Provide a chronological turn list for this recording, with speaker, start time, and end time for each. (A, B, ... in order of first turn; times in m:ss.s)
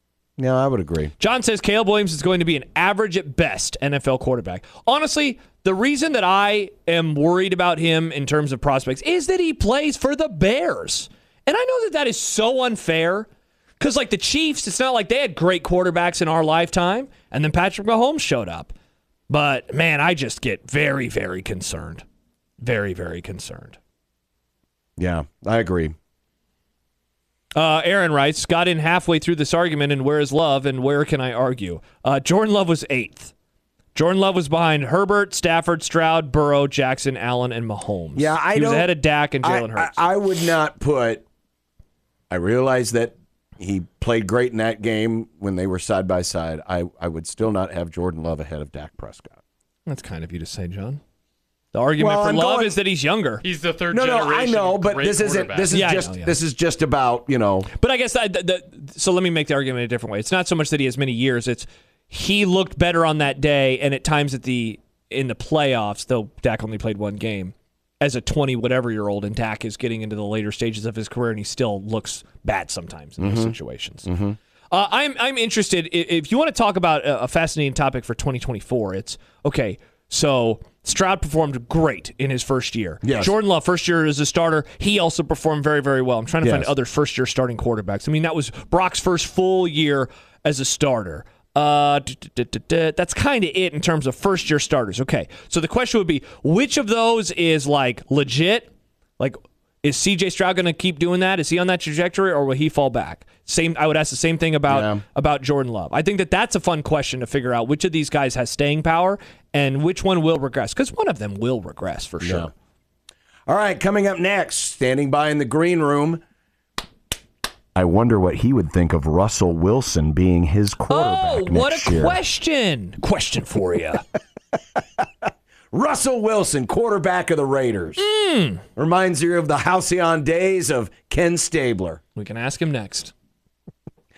0:00.4-0:01.1 A
0:01.2-0:13.3 B
0:13.8-0:18.7 B
0:19.3-0:22.0 B
0:22.6-0:23.8 B
0:25.0-0:25.9 A
0:27.5-0:33.3 B
0:33.9-0:40.1 B
0:38.2-0:41.2 A
0:42.3-0:49.4 A
0:49.8-0:51.0 B
0:51.7-0:53.4 B
0:52.0-0:52.8 A
0:53.4-0:55.8 C
0:53.9-0:57.7 A
0:55.7-0:56.4 B
0:57.7-1:14.1 B
1:13.2-1:14.4 A
1:14.7-1:52.5 B
1:23.0-1:23.3 A
1:26.4-1:26.7 A
1:44.7-1:45.0 A
1:52.2-1:52.5 A
1:53.5-1:56.2 A
1:57.7-2:02.2 A
2:00.9-2:04.0 B
2:05.7-2:08.0 A
2:08.0-2:08.6 B
2:08.8-2:12.0 A
2:12.1-2:13.1 B